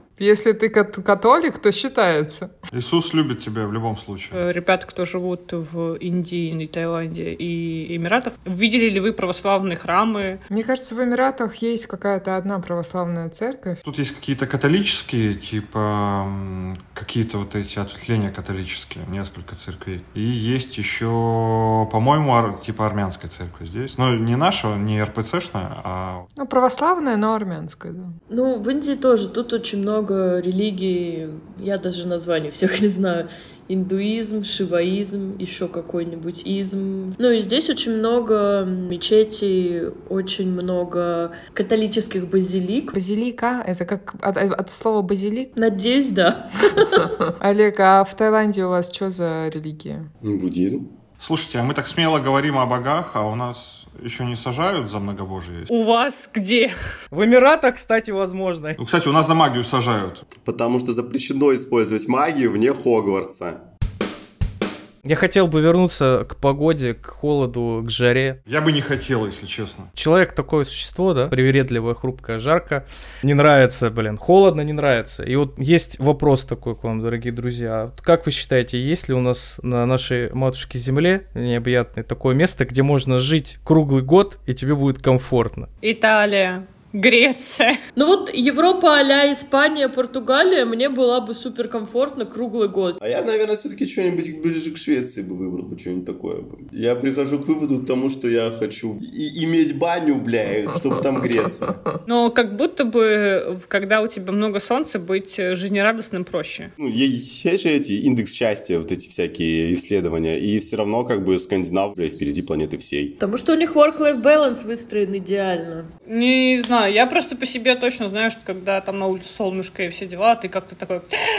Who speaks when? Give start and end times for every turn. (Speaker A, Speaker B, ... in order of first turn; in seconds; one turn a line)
Speaker A: 0.2-2.5
Speaker B: 2.7-4.4
Speaker C: 4.3-10.4
Speaker A: 10.5-13.8
Speaker B: 13.8-26.3
Speaker A: 26.4-28.1
Speaker D: 28.3-42.9
Speaker A: 42.9-45.5
Speaker D: 45.6-47.0
Speaker A: 47.4-50.1
Speaker E: 50.2-50.9
Speaker B: 51.2-55.7
Speaker C: 55.7-56.7
Speaker F: 57.1-58.8
Speaker B: 58.8-60.3
Speaker E: 60.4-63.6
Speaker F: 65.0-68.4
Speaker B: 68.5-69.9
Speaker F: 70.0-85.7
Speaker C: 85.8-87.8
Speaker D: 88.0-93.0
Speaker E: 93.0-101.8
Speaker C: 102.1-106.7
Speaker E: 106.8-113.1
Speaker D: 113.2-115.9
Speaker C: 116.1-121.1